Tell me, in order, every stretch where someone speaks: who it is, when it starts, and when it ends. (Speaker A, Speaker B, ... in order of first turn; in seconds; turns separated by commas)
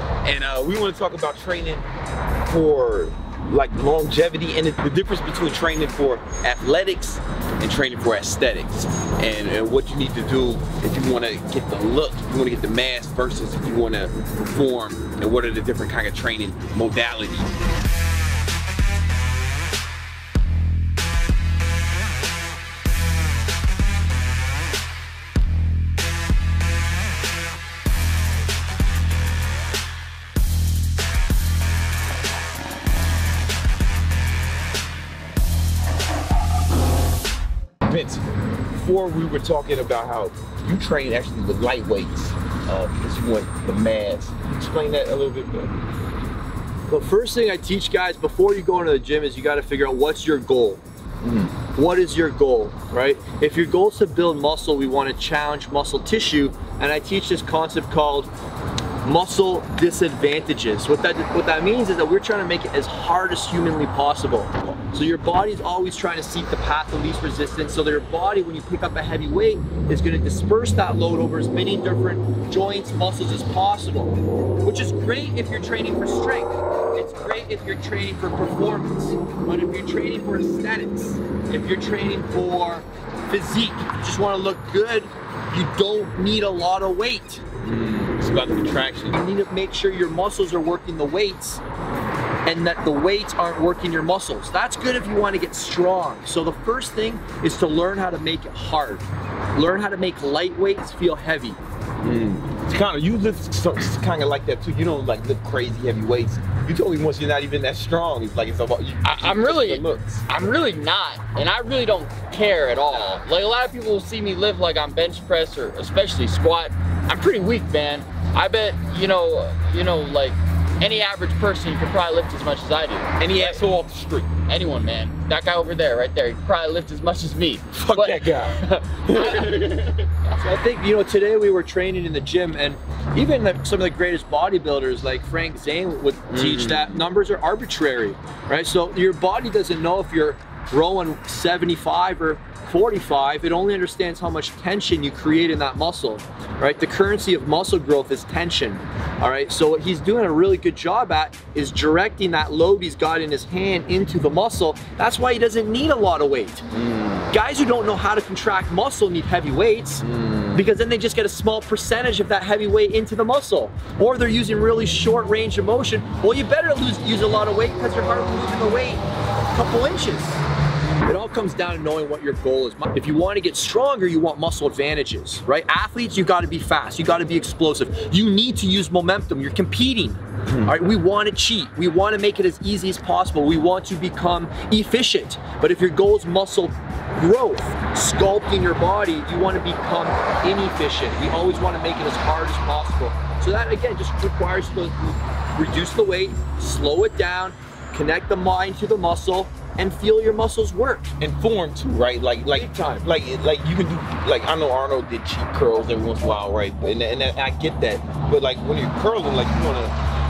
Speaker A: 0.2-1.9, Speaker A: 2.5-17.6, Speaker A: 37.9-45.7, Speaker B: 46.9-50.8, Speaker A: 51.2-51.5, Speaker B: 51.7-58.3, Speaker B: 59.0-87.4, Speaker A: 87.6-89.2, Speaker B: 89.1-91.6, Speaker B: 92.5-101.6, Speaker A: 102.0-110.3, Speaker C: 109.0-123.7, Speaker A: 112.9-113.2, Speaker A: 123.2-124.3, Speaker C: 124.5-130.5, Speaker A: 127.7-130.1, Speaker B: 130.4-156.7, Speaker A: 136.3-137.0, Speaker A: 156.7-157.3, Speaker B: 157.3-170.4, Speaker A: 160.0-160.7, Speaker B: 171.0-201.1, Speaker A: 180.5-180.8, Speaker A: 201.2-209.9, Speaker B: 202.5-203.1